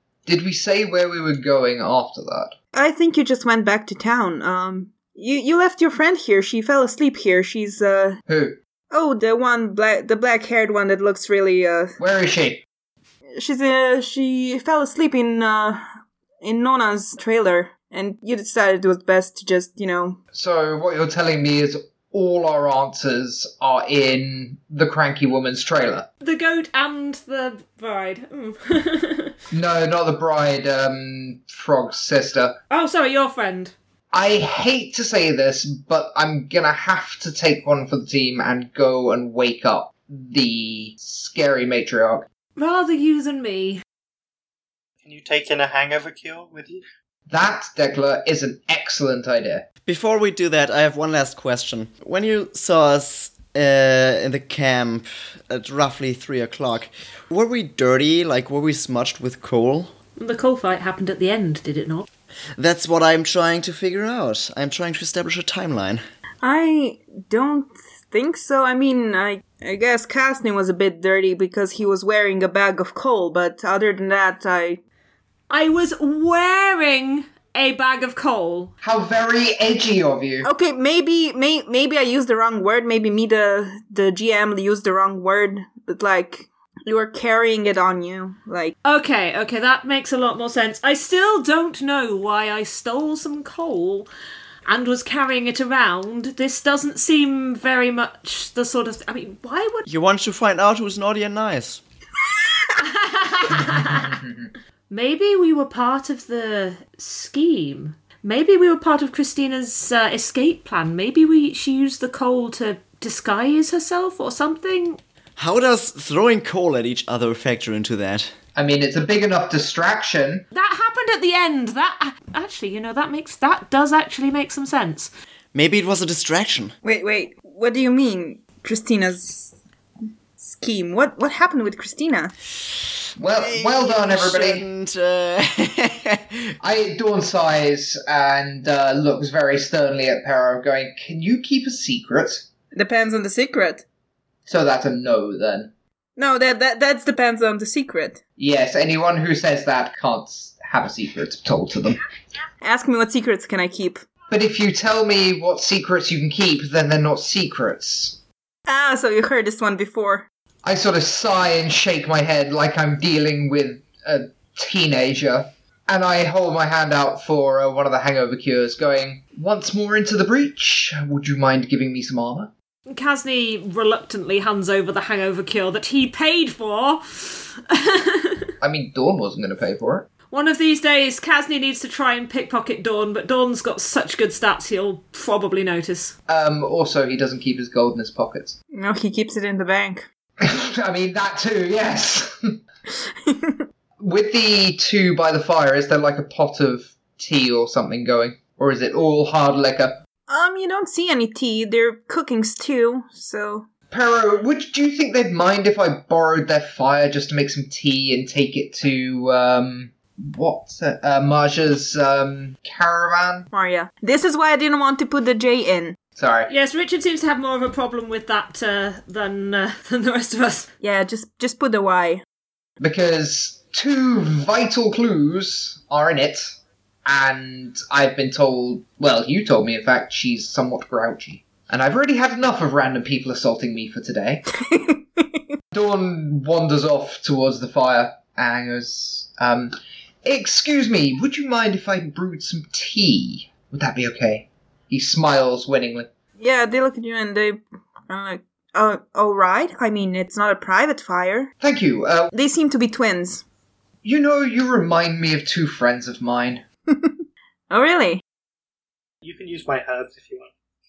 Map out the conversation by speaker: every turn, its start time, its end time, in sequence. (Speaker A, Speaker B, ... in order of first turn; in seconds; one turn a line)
Speaker A: 0.3-2.5
Speaker B: 2.7-8.2
Speaker A: 8.3-8.6
Speaker B: 8.9-11.9
Speaker A: 12.0-12.6
Speaker B: 13.4-15.8
Speaker B: 16.4-20.2
Speaker A: 20.3-26.1
Speaker C: 26.2-29.4
Speaker A: 29.5-32.6
Speaker C: 32.7-33.7
Speaker A: 34.1-42.3
Speaker C: 42.6-43.8
Speaker D: 45.0-46.8
Speaker A: 47.3-49.6
Speaker E: 49.9-59.9
Speaker C: 60.2-62.1
Speaker E: 62.6-66.0
Speaker B: 66.4-74.8
Speaker C: 75.5-78.7
Speaker A: 78.8-80.5
Speaker B: 80.4-88.8
Speaker C: 88.8-94.1
Speaker C: 94.7-99.8
Speaker E: 99.9-101.8
Speaker C: 102.8-104.2
Speaker C: 104.9-115.0
Speaker E: 115.4-118.3
Speaker A: 118.6-120.5
Speaker C: 120.5-125.1
Speaker E: 125.5-126.8
Speaker B: 126.8-129.6
Speaker B: 130.4-132.3
Speaker A: 133.2-134.7
Speaker E: 133.3-136.5
Speaker A: 136.6-142.4
Speaker B: 142.7-143.8
Speaker A: 144.5-145.7
Speaker B: 146.2-148.2
Speaker A: 148.4-152.0
Speaker B: 152.6-154.0
Speaker A: 154.3-158.2
Speaker B: 158.7-160.3
Speaker A: 160.6-172.5
Speaker C: 172.9-178.5
Speaker A: 178.6-180.1
Speaker C: 180.3-186.2
Speaker A: 186.3-188.6
Speaker B: 188.7-190.1
Speaker A: 190.4-192.6
Speaker B: 193.3-193.6
Speaker A: 194.0-200.0
Speaker B: 200.3-203.7
Speaker A: 203.9-213.5
Speaker B: 213.5-216.0
Speaker A: 216.2-216.5
Speaker C: 216.5-220.7
Speaker B: 220.8-222.2
Speaker A: 222.8-226.5
Speaker A: 227.1-234.4
Speaker B: 234.6-235.4
Speaker A: 235.7-246.1
Speaker B: 246.4-251.5
Speaker A: 251.6-252.3
Speaker B: 252.3-253.4
Speaker A: 254.0-256.6
Speaker B: 257.7-258.2
Speaker D: 259.2-260.5